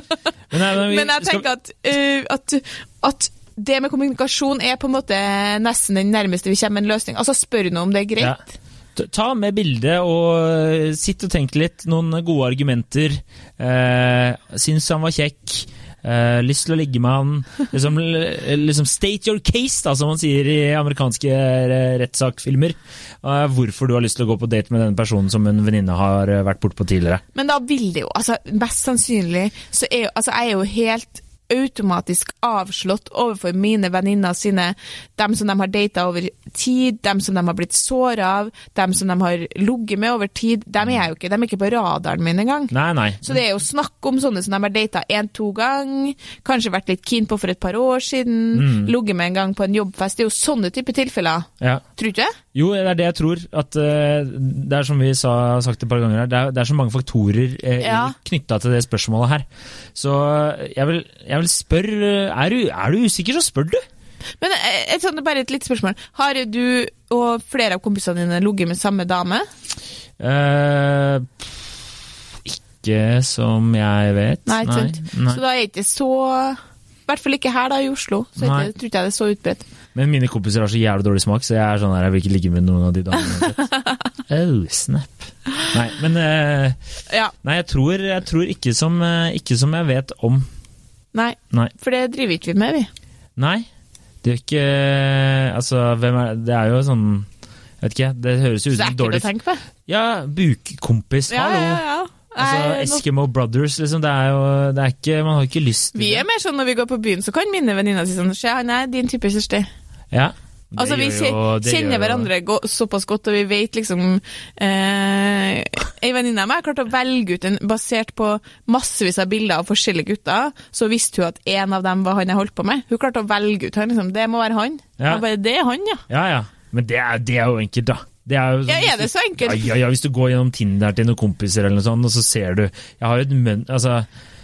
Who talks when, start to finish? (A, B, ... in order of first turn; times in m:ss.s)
0:00.5-0:01.4 A
0:00.6-0:08.5 B
0:09.0-0:27.2 A
0:27.3-0:52.4 B
0:42.7-0:43.4 A
0:48.5-0:48.9 A
0:52.5-1:03.8 A
0:57.8-0:58.1 B
1:04.4-1:09.5 B
1:10.2-1:11.5 A
1:12.4-1:15.4 A
1:14.4-1:19.6 B
1:18.4-1:18.7 A
1:19.9-1:23.6 A
1:23.2-1:24.0 B
1:24.3-1:26.8 A
1:27.4-1:30.4 A
1:31.1-1:32.9 B
1:33.4-1:33.6 A
1:34.2-1:37.3 A
1:37.8-1:39.3 A
1:38.7-1:39.6 B
1:39.8-1:41.8 A
1:41.3-1:43.0 B
1:42.4-1:46.2 A
1:45.9-1:49.7 B
1:50.1-1:52.3 A
1:50.8-2:06.0 B
2:05.0-2:05.2 A
2:06.1-2:14.1 A
2:08.7-2:09.7 B